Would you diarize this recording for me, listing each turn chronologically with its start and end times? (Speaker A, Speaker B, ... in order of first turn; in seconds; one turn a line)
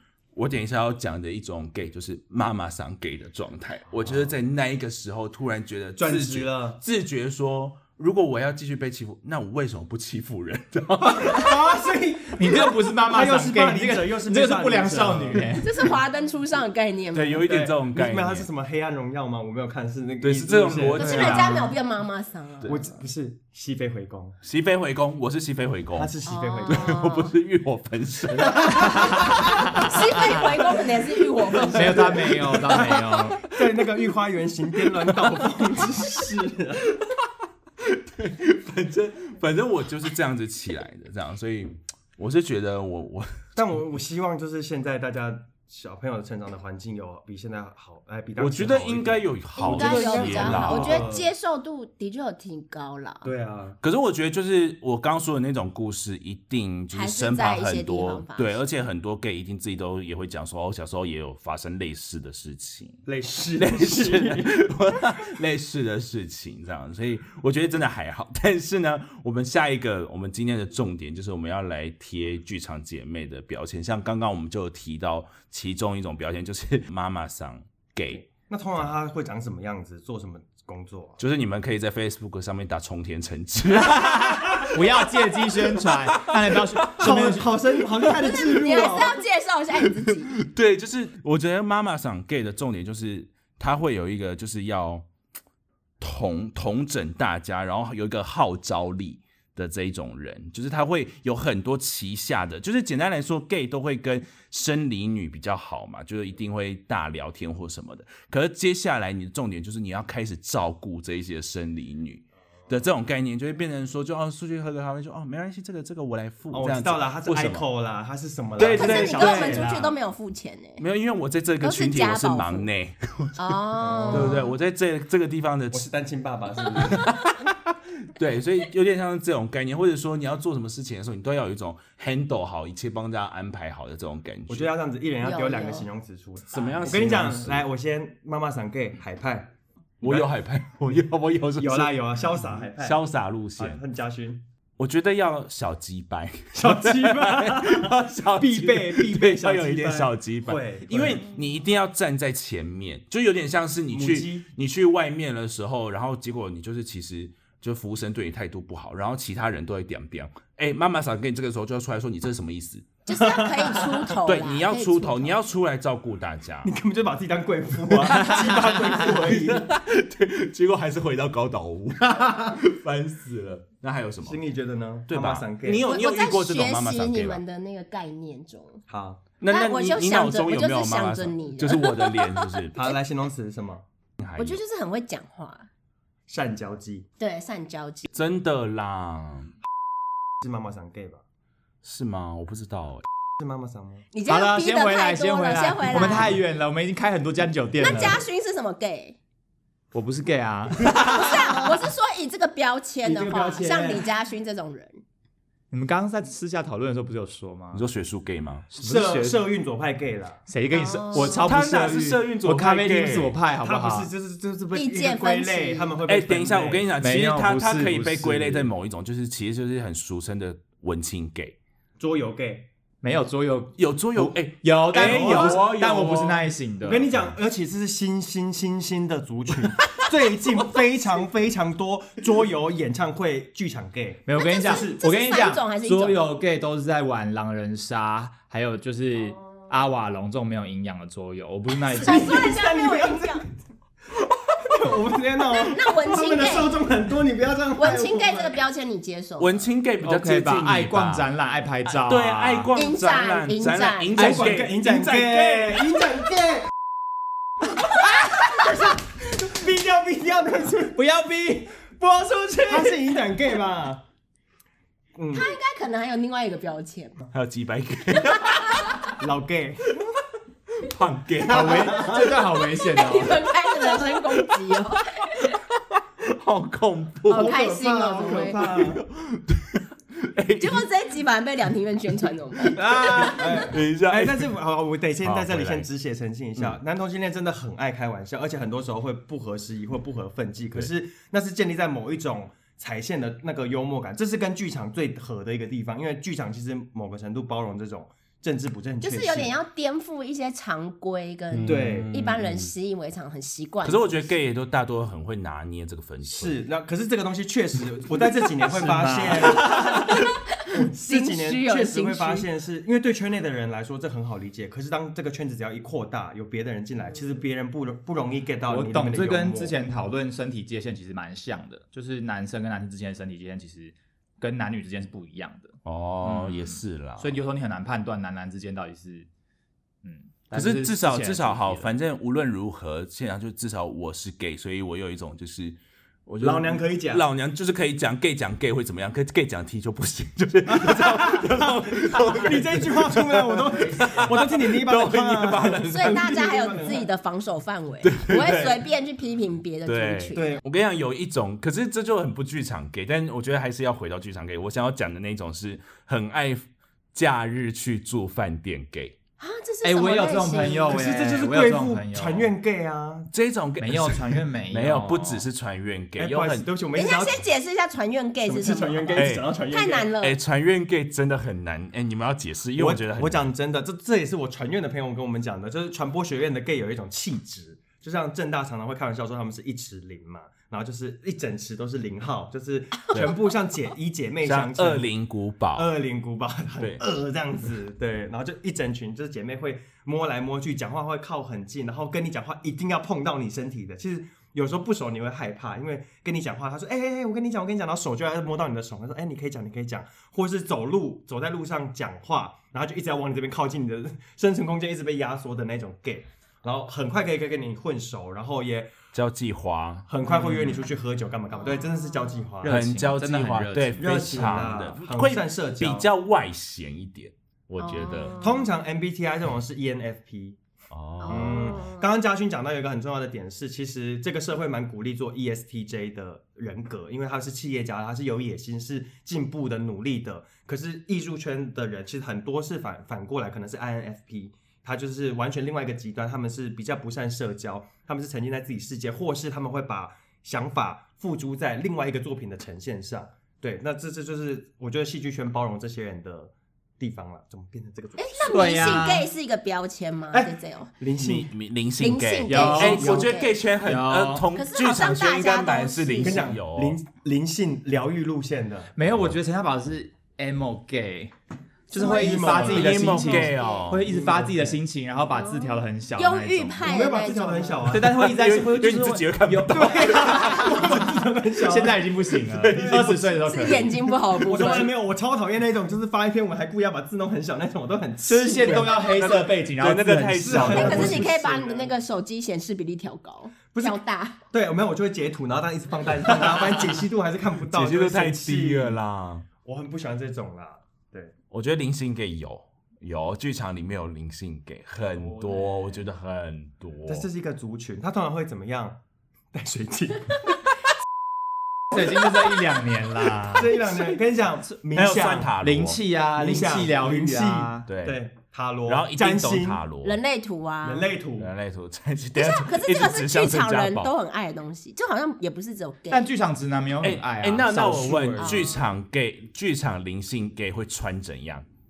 Speaker A: 0.3-11.6
Speaker B: 6.0-6.8
Speaker B: 11.0-15.6
Speaker C: 12.3-16.0
Speaker D: 15.6-17.4
Speaker A: 17.1-18.5
Speaker B: 17.4-21.5
Speaker A: 20.2-21.7
Speaker C: 20.9-21.7
Speaker D: 20.9-23.0
Speaker B: 22.7-24.4
Speaker A: 24.4-26.1
Speaker B: 25.9-26.9
Speaker D: 26.2-27.3
Speaker A: 26.7-29.6
Speaker D: 28.5-32.8
Speaker C: 28.8-30.4
Speaker B: 31.5-36.9
Speaker C: 31.7-33.4
Speaker A: 32.5-33.2
Speaker A: 35.0-35.6
Speaker A: 37.8-43.6
Speaker B: 43.6-51.3
Speaker A: 48.4-51.1
Speaker D: 49.6-53.3
Speaker B: 53.2-53.8
Speaker A: 53.8-63.0
Speaker D: 56.9-58.6
Speaker B: 63.0-64.7
Speaker A: 63.6-78.3
Speaker B: 78.1-81.2
Speaker A: 81.2-87.4
Speaker C: 83.7-87.5
Speaker B: 87.0-89.2
Speaker D: 88.1-90.4
Speaker A: 89.9-95.1
Speaker A: 96.0-117.7
Speaker B: 116.5-119.9
Speaker A: 118.6-119.8
Speaker D: 118.7-120.8
Speaker A: 120.8-123.6
Speaker D: 121.6-122.7
Speaker D: 123.4-124.5
Speaker B: 123.8-124.4
Speaker A: 124.1-125.9
Speaker B: 125.7-127.1
Speaker A: 126.8-134.7
Speaker B: 134.5-140.3
Speaker D: 135.2-135.9
Speaker A: 136.5-137.7
Speaker A: 140.0-143.8
Speaker B: 141.6-143.0
Speaker B: 143.6-144.4
Speaker A: 144.8-162.9
Speaker B: 146.6-151.3
Speaker B: 153.9-154.5
Speaker D: 163.1-165.4
Speaker B: 163.1-164.1
Speaker A: 164.2-166.7
Speaker B: 166.6-169.7
Speaker A: 167.9-174.4
Speaker B: 174.2-175.9
Speaker A: 175.1-177.4
Speaker D: 175.8-178.8
Speaker B: 178.9-179.2
Speaker A: 179.4-182.8
Speaker D: 179.5-183.0
Speaker B: 182.8-183.8
Speaker A: 184.2-184.6
Speaker D: 184.4-185.7
Speaker B: 186.3-187.1
Speaker D: 187.2-188.1
Speaker A: 188.1-189.5
Speaker B: 190.4-191.2
Speaker A: 191.8-193.0
Speaker B: 193.4-194.1
Speaker D: 194.1-196.4
Speaker C: 194.3-198.2
Speaker D: 197.8-199.2
Speaker C: 199.9-201.7
Speaker D: 201.0-205.0
Speaker B: 203.0-204.1
Speaker C: 205.7-207.8
Speaker A: 207.7-209.3
Speaker B: 208.8-210.4
Speaker C: 208.8-209.3
Speaker C: 210.5-214.1
Speaker D: 210.7-211.5
Speaker A: 211.2-213.4
Speaker B: 213.6-216.9
Speaker D: 214.7-216.0
Speaker A: 216.1-221.6
Speaker C: 217.0-218.7
Speaker B: 222.0-222.7
Speaker C: 223.0-227.1
Speaker A: 223.8-226.5
Speaker B: 225.0-225.7
Speaker B: 226.8-235.0
Speaker C: 234.3-242.5
Speaker D: 234.4-236.2
Speaker D: 241.9-243.4
Speaker B: 242.0-243.4
Speaker B: 244.5-248.6
Speaker D: 245.5-246.8
Speaker D: 247.8-249.7
Speaker A: 249.4-251.3
Speaker C: 250.0-252.7
Speaker A: 251.9-255.6
Speaker D: 252.8-254.2
Speaker B: 254.2-256.7
Speaker C: 254.3-255.6
Speaker B: 258.5-261.0
Speaker C: 260.9-261.8
Speaker B: 262.0-264.0
Speaker B: 265.2-265.5
Speaker D: 265.3-267.2
Speaker A: 267.3-269.0
Speaker D: 268.2-268.9
Speaker B: 269.1-270.1
Speaker A: 270.8-272.3
Speaker C: 271.4-273.6
Speaker B: 271.6-272.3
Speaker D: 272.7-275.6
Speaker A: 274.4-277.6
Speaker D: 277.3-278.8
Speaker B: 277.3-279.0
Speaker A: 278.7-280.8
Speaker D: 280.6-283.7
Speaker B: 282.7-299.5
Speaker A: 282.9-284.6
Speaker A: 285.2-285.9
Speaker D: 299.0-304.3
Speaker A: 301.5-302.7
Speaker B: 301.7-302.1
Speaker A: 303.8-306.6
Speaker B: 306.2-310.0
Speaker C: 308.7-310.0
Speaker D: 309.6-312.5
Speaker B: 310.7-319.8
Speaker C: 318.7-329.3
Speaker A: 325.9-327.4
Speaker C: 330.0-331.9
Speaker A: 330.5-346.3
Speaker B: 336.4-337.2
Speaker B: 340.8-347.1
Speaker D: 345.9-350.6
Speaker A: 348.0-348.8
Speaker A: 349.9-359.2
Speaker B: 350.4-350.6
Speaker D: 359.4-361.1
Speaker C: 359.8-362.5
Speaker B: 360.9-363.3
Speaker A: 363.3-366.7
Speaker C: 363.8-365.5
Speaker B: 366.2-367.4
Speaker D: 366.9-370.4
Speaker B: 368.4-370.1
Speaker A: 369.1-369.5
Speaker A: 370.2-373.5
Speaker B: 372.8-385.2
Speaker A: 383.1-383.4
Speaker A: 384.4-385.9
Speaker B: 385.7-408.9
Speaker A: 409.1-410.5
Speaker B: 410.1-412.8
Speaker D: 411.6-412.4
Speaker C: 412.6-414.5
Speaker A: 412.7-418.4
Speaker B: 414.0-416.1
Speaker D: 417.8-418.7
Speaker B: 418.4-420.6
Speaker A: 420.9-421.9
Speaker D: 421.2-422.1
Speaker B: 421.3-449.1
Speaker D: 448.2-450.9
Speaker C: 448.5-449.3
Speaker B: 450.3-451.5
Speaker A: 451.2-457.0
Speaker D: 452.0-453.5
Speaker C: 452.5-453.2
Speaker B: 452.8-453.3
Speaker C: 453.8-454.5
Speaker D: 454.5-456.5
Speaker B: 456.2-458.9
Speaker C: 459.0-461.3
Speaker C: 461.9-467.0
Speaker B: 461.9-463.3
Speaker A: 462.4-464.1
Speaker D: 463.2-463.9
Speaker B: 464.0-464.8
Speaker D: 465.3-467.9
Speaker B: 466.8-468.1
Speaker C: 467.9-474.0
Speaker A: 467.9-471.1
Speaker B: 469.7-472.0
Speaker A: 472.5-473.3
Speaker B: 472.7-479.1
Speaker D: 473.4-474.9
Speaker C: 478.2-481.3
Speaker A: 478.6-481.3
Speaker B: 480.4-481.9
Speaker D: 480.6-484.4
Speaker B: 483.7-484.0
Speaker B: 484.5-489.0
Speaker A: 487.7-489.5
Speaker B: 489.6-491.4
Speaker A: 491.5-497.3
Speaker B: 495.2-495.9
Speaker B: 497.1-499.0
Speaker B: 499.5-500.6
Speaker B: 501.9-502.6
Speaker C: 501.9-503.9
Speaker B: 503.4-505.5
Speaker A: 504.9-506.0
Speaker C: 505.6-507.9
Speaker B: 506.4-509.8
Speaker A: 507.9-508.2
Speaker A: 508.9-510.2
Speaker D: 510.0-511.1
Speaker B: 510.8-511.5
Speaker A: 511.4-514.1
Speaker D: 512.4-516.3
Speaker C: 516.1-518.7
Speaker A: 517.0-521.7
Speaker D: 518.4-518.9